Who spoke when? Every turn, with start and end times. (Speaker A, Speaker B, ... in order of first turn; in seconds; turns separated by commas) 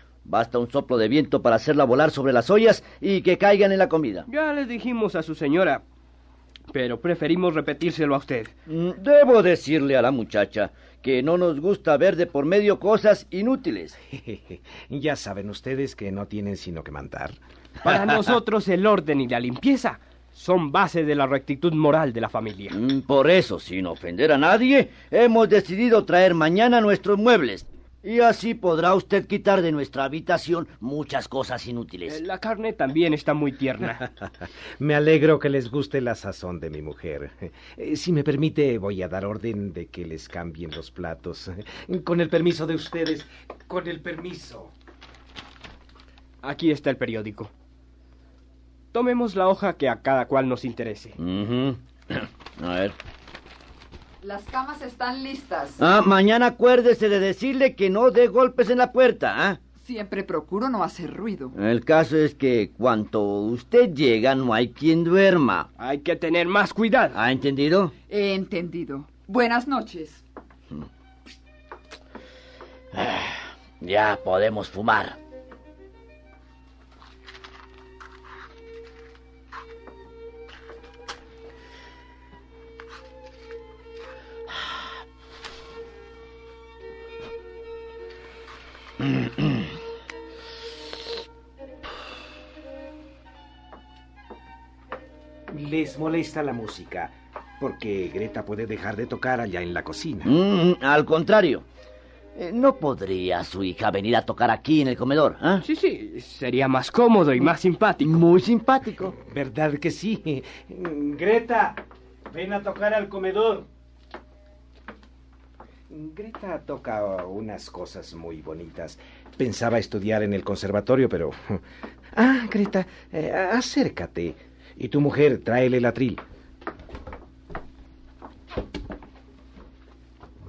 Speaker A: 0.2-4.2, Speaker B: 4.3-5.8, Speaker B: 6.7-8.5, Speaker A: 8.7-13.9, Speaker C: 14.1-17.4, Speaker B: 17.8-22.8, Speaker A: 22.7-32.2, Speaker B: 32.1-34.1, Speaker C: 34.8-44.7, Speaker B: 46.4-47.5, Speaker B: 48.9-51.2, Speaker A: 51.2-53.0, Speaker D: 54.2-55.8, Speaker A: 55.8-59.6, Speaker D: 59.8-61.5, Speaker A: 61.5-65.7, Speaker B: 65.8-67.1, Speaker A: 67.1-67.9, Speaker D: 68.1-70.2, Speaker A: 72.9-75.2, Speaker C: 95.5-100.3, Speaker A: 100.2-101.6, Speaker A: 102.3-105.6, Speaker B: 105.6-108.1, Speaker A: 108.0-109.2, Speaker C: 109.2-113.7, Speaker C: 115.9-126.2